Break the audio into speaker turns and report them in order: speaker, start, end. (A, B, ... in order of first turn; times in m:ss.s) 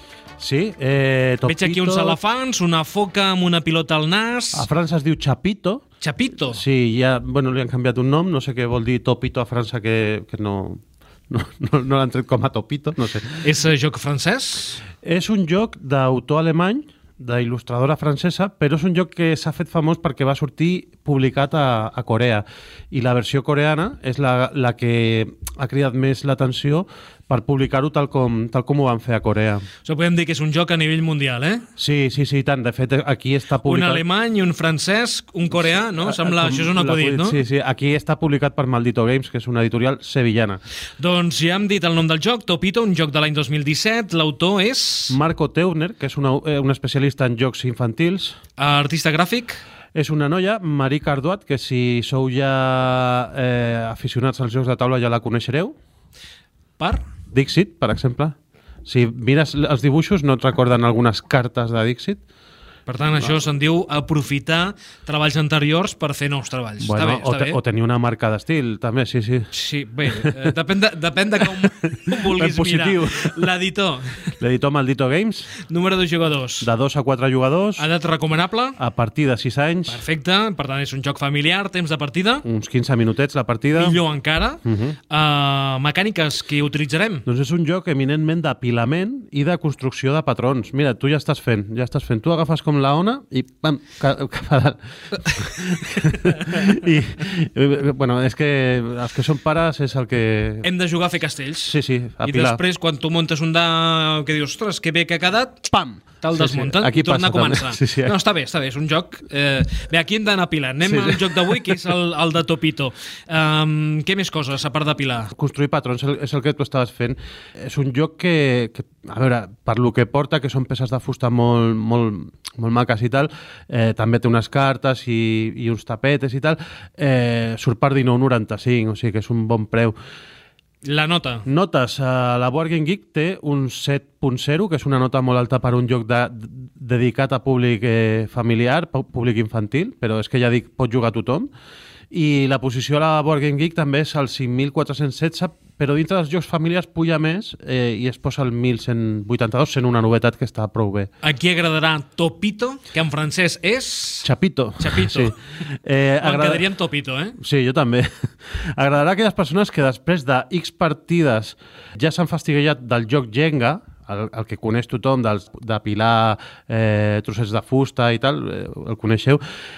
0:00.4-0:02.2 A
0:01.5-0:04.7 B
0:04.5-0:05.8 A
0:06.0-0:06.6 B
0:06.5-0:13.5 A
0:13.4-0:14.8 B
0:15.0-0:29.6 A
0:29.8-0:31.6 B
0:31.8-0:34.0 A
0:33.6-0:37.4 B
0:35.5-0:40.6 A
0:41.0-0:45.2 B
0:45.1-0:48.4 A
0:48.6-0:49.6 B
0:50.0-0:55.8 A
0:57.3-0:58.4 A
0:58.9-1:02.2 A
1:02.9-1:07.6 B
1:06.8-1:09.5 A
1:09.5-1:14.4 B
1:10.1-1:10.3 A
1:11.6-1:13.5 A
1:14.4-1:15.5 A
1:15.6-1:16.7 B
1:16.6-1:17.9 A
1:17.8-1:18.8 B
1:18.8-1:20.0 A
1:19.9-1:22.4 B
1:22.4-1:24.0 A
1:23.8-1:27.2 B
1:24.6-1:25.0 A
1:27.3-1:40.7 A
1:40.6-1:45.7 B
1:41.6-1:42.6 A
1:45.7-1:48.2 A
1:46.2-1:55.3 B
1:50.8-1:51.8 A
1:55.3-2:10.0 A
2:10.8-2:11.5 B
2:11.5-2:21.5 A
2:22.1-2:31.1 A
2:31.2-2:34.3 B
2:34.2-2:36.7 A
2:34.8-2:35.3 B
2:36.2-2:37.4 B
2:37.4-2:49.4 A